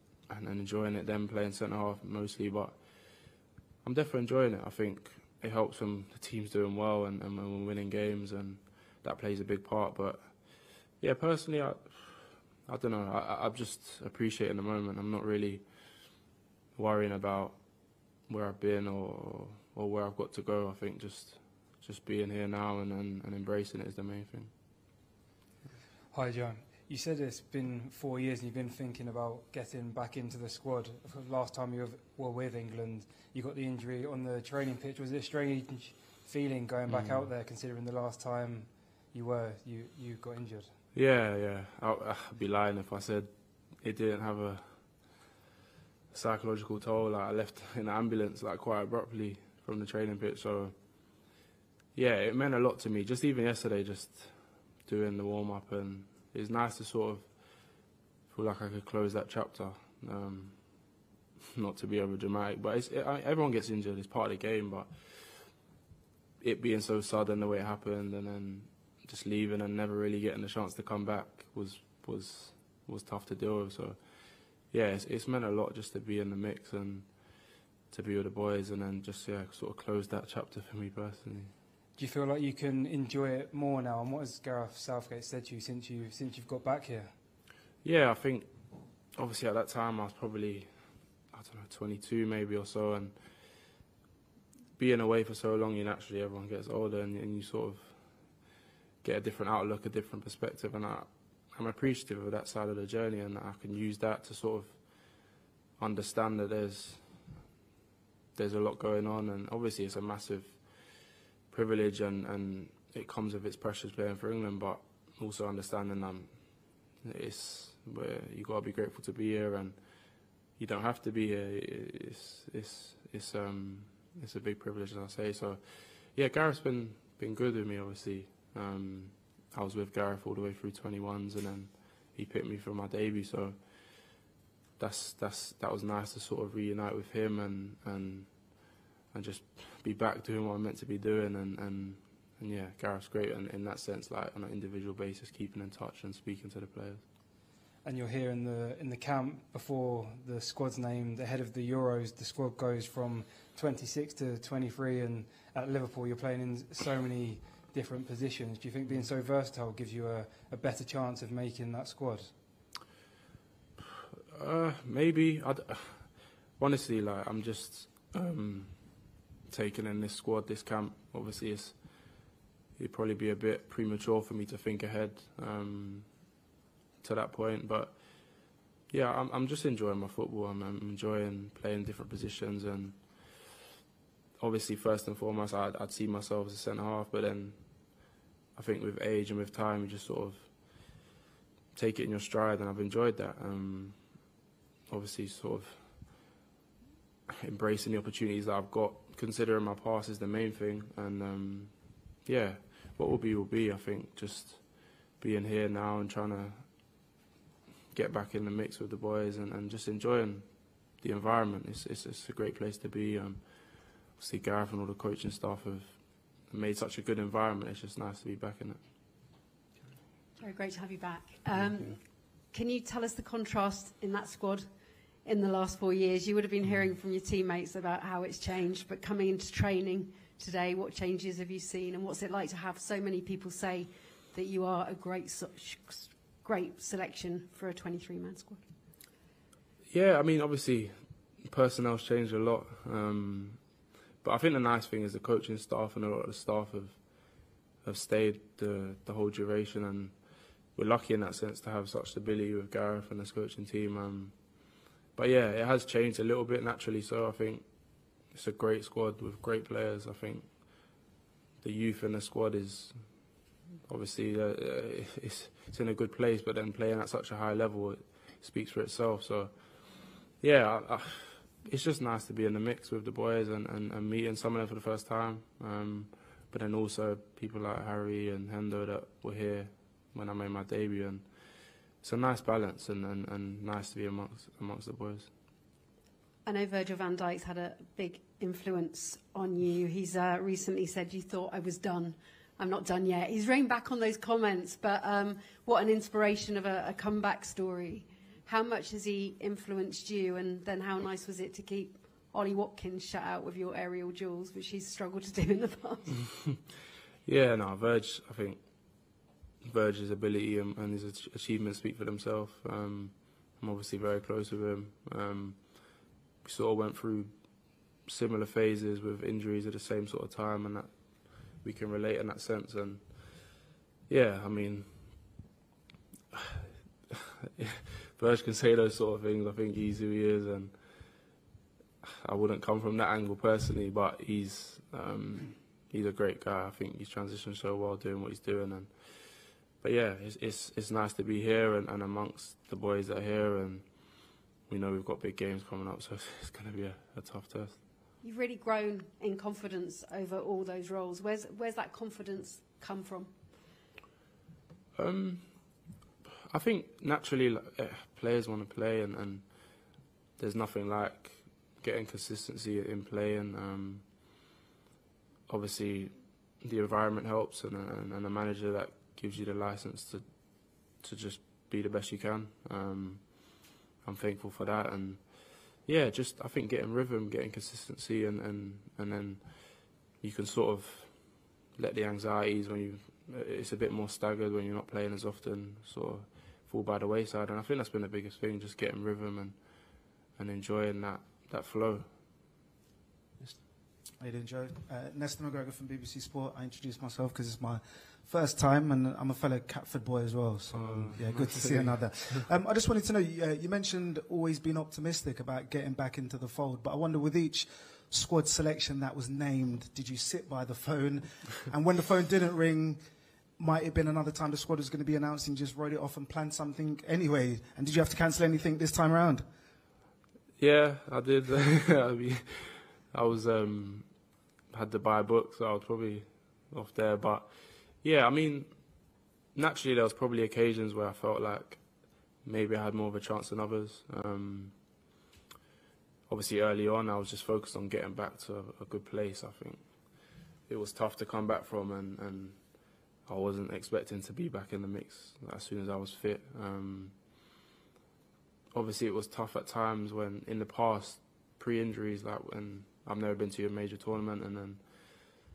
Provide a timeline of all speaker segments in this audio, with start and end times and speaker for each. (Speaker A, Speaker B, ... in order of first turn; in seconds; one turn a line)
Speaker A: 0.3-16.2
Speaker A: 16.7-24.5
Speaker B: 26.1-40.8
Speaker A: 36.9-37.3
Speaker A: 40.9-45.2
Speaker A: 46.1-51.2
Speaker A: 51.9-57.4
Speaker A: 58.3-61.0
Speaker A: 61.5-65.5
Speaker A: 66.4-81.5
Speaker B: 82.0-87.1
Speaker A: 87.8-93.6
Speaker A: 94.8-98.4
Speaker A: 99.0-105.2
Speaker A: 105.8-107.3
Speaker A: 108.3-134.1
Speaker A: 134.8-147.0
Speaker B: 147.8-162.3
Speaker A: 164.3-176.4
Speaker A: 177.0-183.4
Speaker A: 184.4-190.9
Speaker A: 191.7-194.3
Speaker A: 194.9-196.3
Speaker A: 197.4-206.9
Speaker A: 207.9-218.8
Speaker C: 220.4-238.6
Speaker A: 221.6-221.9
Speaker A: 239.9-261.0
Speaker A: 261.6-285.3
Speaker C: 286.4-306.1
Speaker A: 307.2-323.6
Speaker A: 324.1-325.4
Speaker A: 327.6-331.3
Speaker A: 332.0-347.8
Speaker C: 348.2-353.3
Speaker A: 354.9-355.9
Speaker A: 356.5-364.5
Speaker A: 365.5-392.1
Speaker D: 394.2-413.0
Speaker A: 400.7-402.4
Speaker D: 413.6-419.4
Speaker A: 420.6-435.0
Speaker A: 436.3-447.4
Speaker A: 448.7-455.2